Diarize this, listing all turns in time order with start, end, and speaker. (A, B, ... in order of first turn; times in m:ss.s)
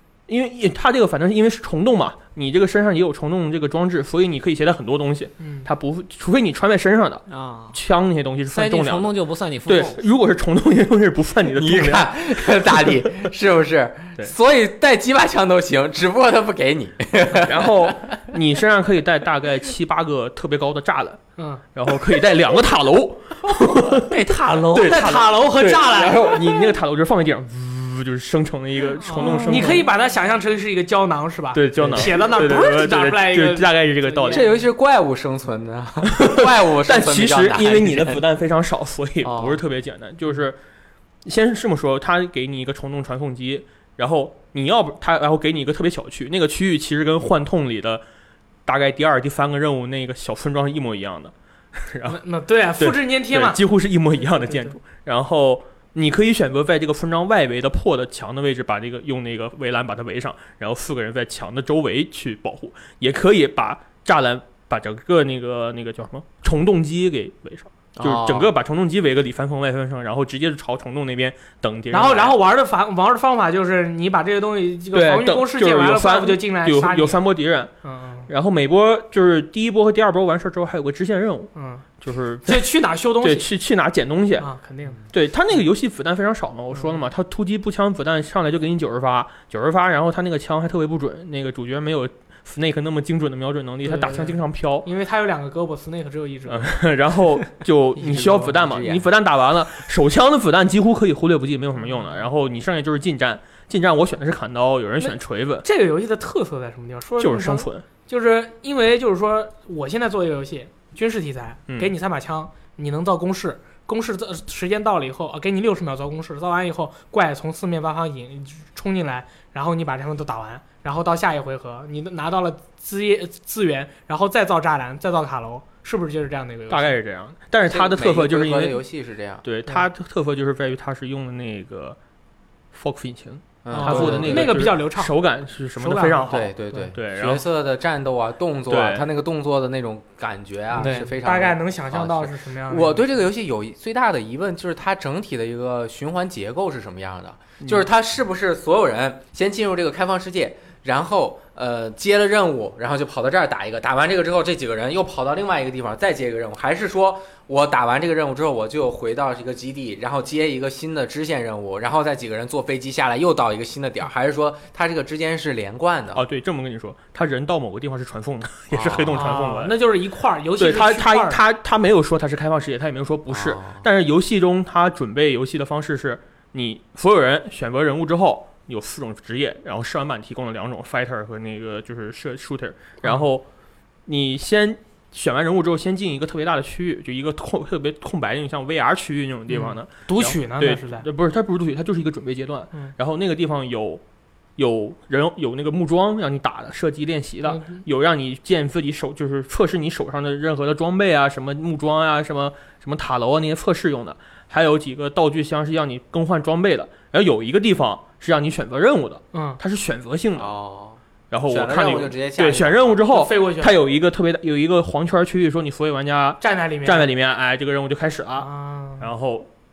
0:00.3-0:13.0 A
0:05.4-0:05.7 B
0:07.3-0:07.8 C
0:08.5-0:10.0 C
0:11.5-0:18.1 D
0:17.4-0:21.2 A
0:21.4-0:21.6 B
0:21.8-0:24.2 A
0:24.1-0:25.2 C
0:24.7-0:29.9 A
0:24.8-0:26.5 B
0:29.0-0:34.6 B
0:29.2-0:29.8 D
0:31.5-0:34.5 A
0:31.8-0:32.1 D
0:34.3-0:38.2 D
0:36.0-0:40.6 A
0:39.2-0:39.6 D
0:41.2-0:48.0 A
0:48.7-0:52.2 A
0:52.1-0:53.6 B
0:52.8-1:12.4 A
0:54.2-0:54.8 B
1:08.0-1:08.5 D
1:11.9-1:17.2 B
1:14.9-1:17.7 A
1:17.8-1:18.3 B
1:18.3-1:24.5 A
1:21.6-1:21.8 B
1:22.5-1:23.5 B
1:24.4-1:25.0 B
1:25.1-1:34.9 A
1:33.8-1:36.7 B
1:36.5-1:45.6 A
1:38.0-1:39.0 D
1:38.1-1:38.5 B
1:41.8-1:42.3 B
1:45.0-2:07.0 B
1:47.2-1:47.8 A
1:51.7-1:51.9 A
2:06.7-2:08.8 A
2:07.7-2:09.4 D
2:09.4-2:12.0 A
2:12.7-2:17.4 A
2:13.6-2:14.6 D
2:13.7-2:15.1 B
2:15.8-2:16.9 B
2:16.3-2:46.2 D
2:18.7-2:19.1 A
2:20.7-2:21.1 C
2:21.2-2:23.0 B
2:46.1-2:49.8 A
2:48.7-2:49.2 D
2:49.1-2:51.4 B
2:50.6-3:03.4 A
2:53.3-2:53.8 D
3:04.1-3:14.0 A
3:09.5-3:11.1 B
3:14.6-3:30.5 A
3:17.4-3:17.8 B
3:29.3-3:29.6 B
3:30.4-3:33.0 D
3:31.3-3:39.5 A
3:33.1-3:33.7 B
3:36.4-3:37.1 B
3:38.4-3:39.1 B